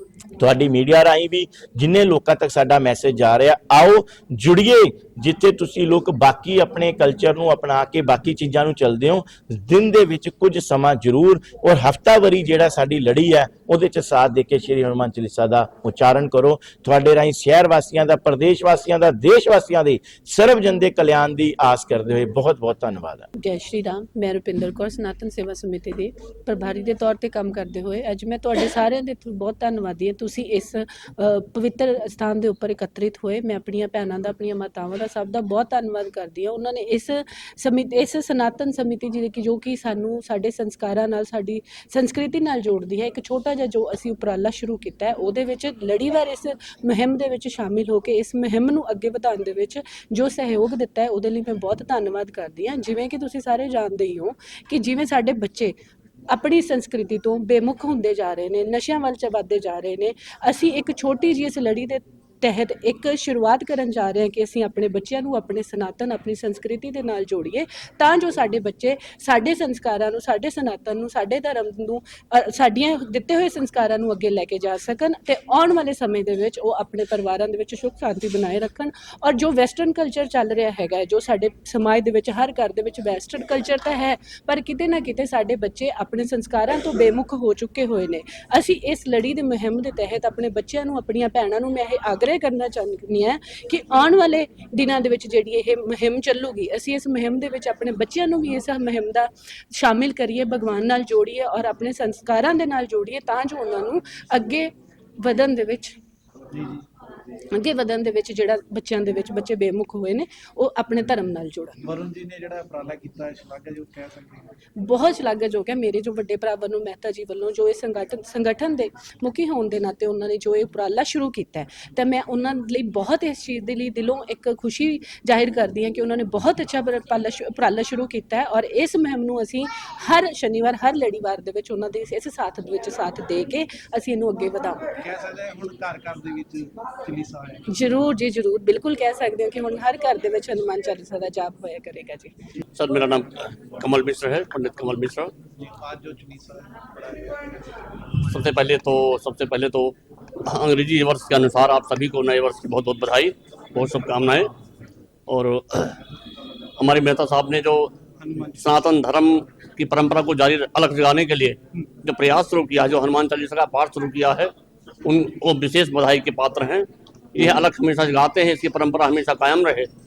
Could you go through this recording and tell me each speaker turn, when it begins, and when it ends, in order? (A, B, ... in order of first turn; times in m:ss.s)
0:00.4-0:23.3 A
0:23.4-0:55.7 B
0:56.3-1:46.0 B
1:46.5-1:46.9 C
1:47.4-1:51.8 B
1:51.8-1:54.5 C
1:54.8-2:14.9 B
2:15.0-2:17.6 C
2:17.7-2:22.3 B
2:22.8-2:25.3 D
2:25.6-2:27.7 C
2:28.2-2:34.5 D
2:35.3-2:36.0 D
2:36.8-2:38.0 D
2:38.2-2:38.7 C
2:38.5-2:44.5 D
2:45.0-2:49.9 D